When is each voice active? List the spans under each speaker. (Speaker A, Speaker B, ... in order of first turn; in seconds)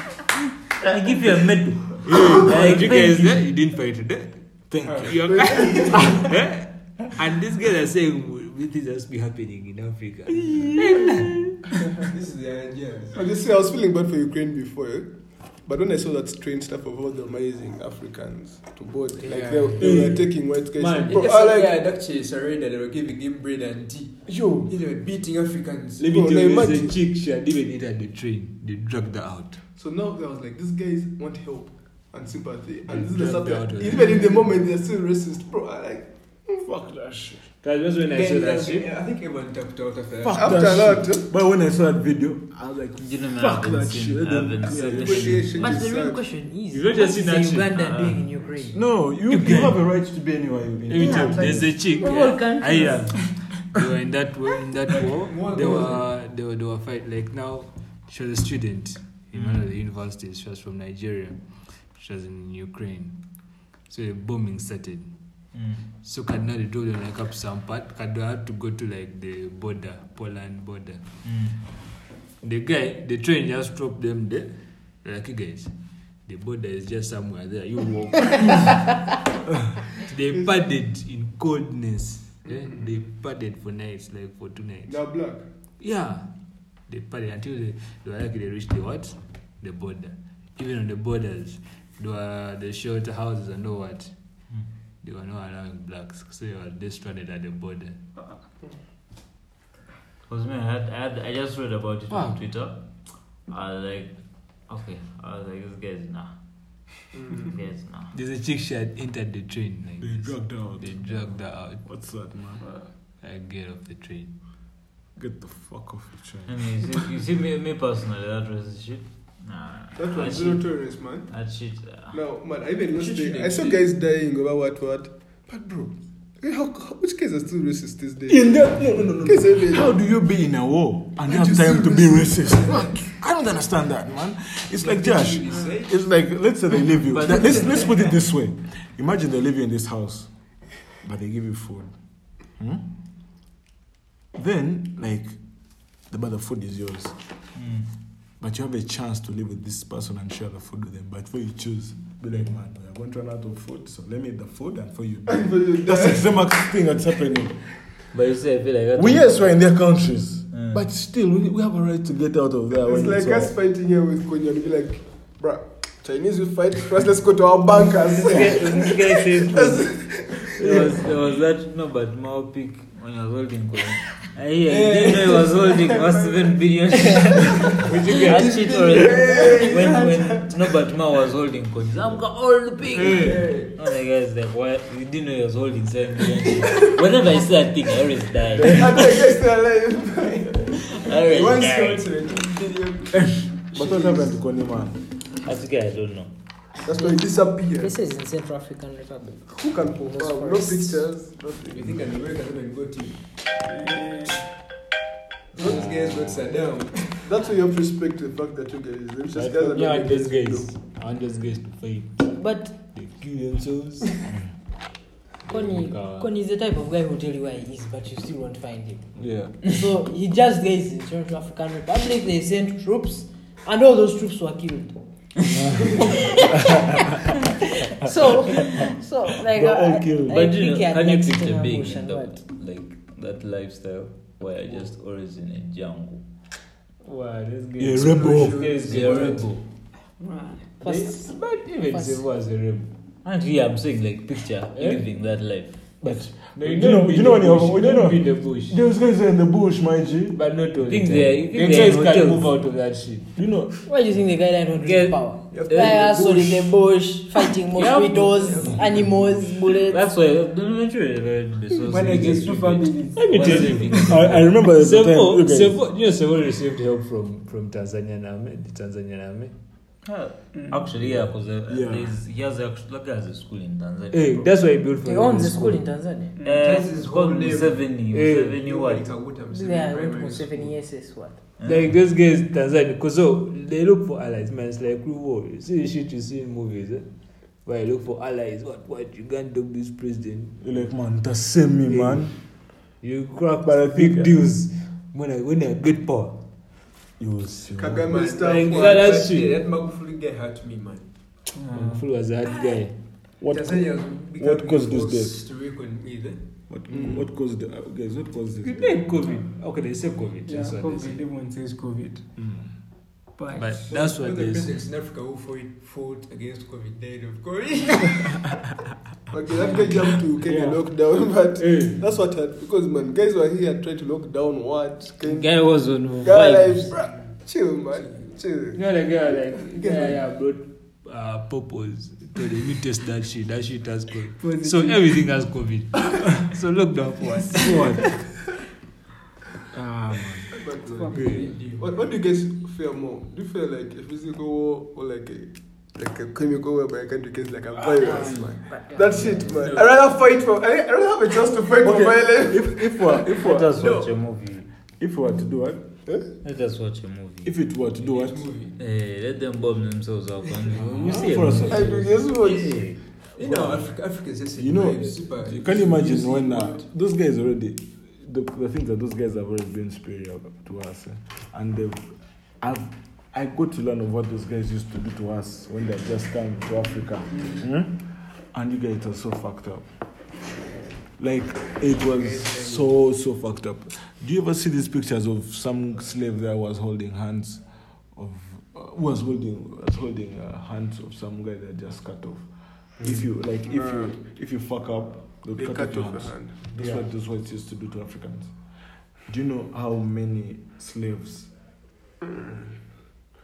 Speaker A: 0.8-3.3, 43.0-45.9, 47.8-48.1, 59.3-59.7, 65.5-65.8, 71.2-71.6, 100.3-106.4, 107.3-108.2, 116.5-122.2, 137.1-138.0, 147.6-147.9, 158.1-159.5, 160.5-160.8, 168.1-189.1, 190.9-192.1, 195.4-196.3, 230.3-236.2, 238.7-239.7, 243.2-245.8, 250.8-252.5, 254.8-256.6, 257.8-258.6, 259.9-264.5, 270.0-274.5, 276.4-279.1, 281.6-281.9, 325.2-327.0, 353.3-354.7, 356.4-357.6, 358.8-363.0
Speaker B: 2.0-11.7, 19.8-21.3, 26.0-29.6, 32.9-34.4, 37.6-38.9, 46.7-48.2, 49.3-49.8, 50.9-63.2, 63.9-65.1, 65.9-71.1, 72.4-75.7, 76.2-79.0, 79.9-85.0, 85.8-86.3, 86.9-94.1, 95.0-98.0, 102.1-102.4, 108.1-112.2, 113.2-114.3, 183.0-183.3, 205.7-206.3, 209.3-214.1, 215.5-216.3, 237.0-239.4, 240.8-242.9, 244.8-245.0, 246.5-248.8, 250.3-253.3, 263.2-269.5, 274.1-275.8, 278.1-278.6, 281.6-287.1, 287.6-290.6, 291.9-292.3, 293.0-296.4, 298.4-299.6, 301.7-303.0, 308.6-311.2, 313.6-314.8, 328.7-338.2
Speaker C: 4.7-5.5, 10.4-10.8, 19.8-20.3, 24.3-24.7, 36.6-37.5, 40.2-45.6, 48.7-51.8, 110.0-112.7, 115.2-116.6, 128.3-141.9, 142.5-142.9, 144.3-145.4, 146.1-147.2, 148.4-157.6, 158.9-163.5, 193.7-195.0, 219.2-219.6, 225.5-226.0, 229.5-230.4, 237.8-238.7, 246.0-250.4, 253.4-253.7, 264.1-265.8, 271.7-272.1, 290.6-292.4, 293.6-294.5, 297.2-298.2, 303.4-305.5, 306.7-309.1, 312.4-312.7, 337.6-338.3, 339.7-340.5, 351.8-353.8, 355.0-355.9, 357.4-358.5, 360.9-362.1, 363.4-363.9, 364.6-379.9, 381.2-398.5, 399.3-401.5
Speaker D: 4.8-5.2, 12.0-13.2, 19.2-20.0, 21.0-26.1, 38.1-40.6, 55.2-56.1, 122.9-123.8, 134.8-136.0, 137.3-137.9, 174.7-176.5, 177.7-180.2, 183.0-183.8, 191.2-194.3, 201.7-203.4, 205.5-207.3, 238.0-239.5, 255.5-256.7, 257.9-259.1, 276.5-278.0, 278.5-280.8, 298.1-301.1, 303.5-306.5, 313.9-318.4, 327.9-328.4, 329.8-330.2, 340.9-342.1, 349.4-350.0, 353.4-354.1, 358.0-358.8, 363.4-366.9, 381.9-382.9
Speaker E: 5.2-6.2, 13.1-21.8, 26.1-26.9, 29.8-36.6, 40.3-41.3, 44.8-46.2, 84.9-85.5, 107.1-107.5, 120.0-121.3, 122.1-130.0, 131.3-132.2, 155.3-156.3, 162.8-171.0, 179.1-180.1, 188.6-190.8, 196.8-197.9, 199.5-202.0, 207.2-210.7, 297.8-299.1, 306.9-307.2, 319.3-328.8, 340.5-353.0, 361.7-362.9, 393.6-394.1, 395.5-396.8, 402.2-402.7
Speaker F: 45.5-48.9, 51.0-53.3, 196.9-201.0, 212.3-213.0, 215.5-225.0, 225.8-227.1, 227.8-232.4, 240.2-241.4, 241.9-242.2, 253.8-260.1, 275.0-276.4, 279.5-281.4, 348.0-349.4
Speaker G: 261.8-264.1, 270.5-270.8, 276.4-276.7, 301.5-302.1, 310.4-312.2, 313.4-313.9, 320.4-320.8, 334.4-335.1, 341.0-341.5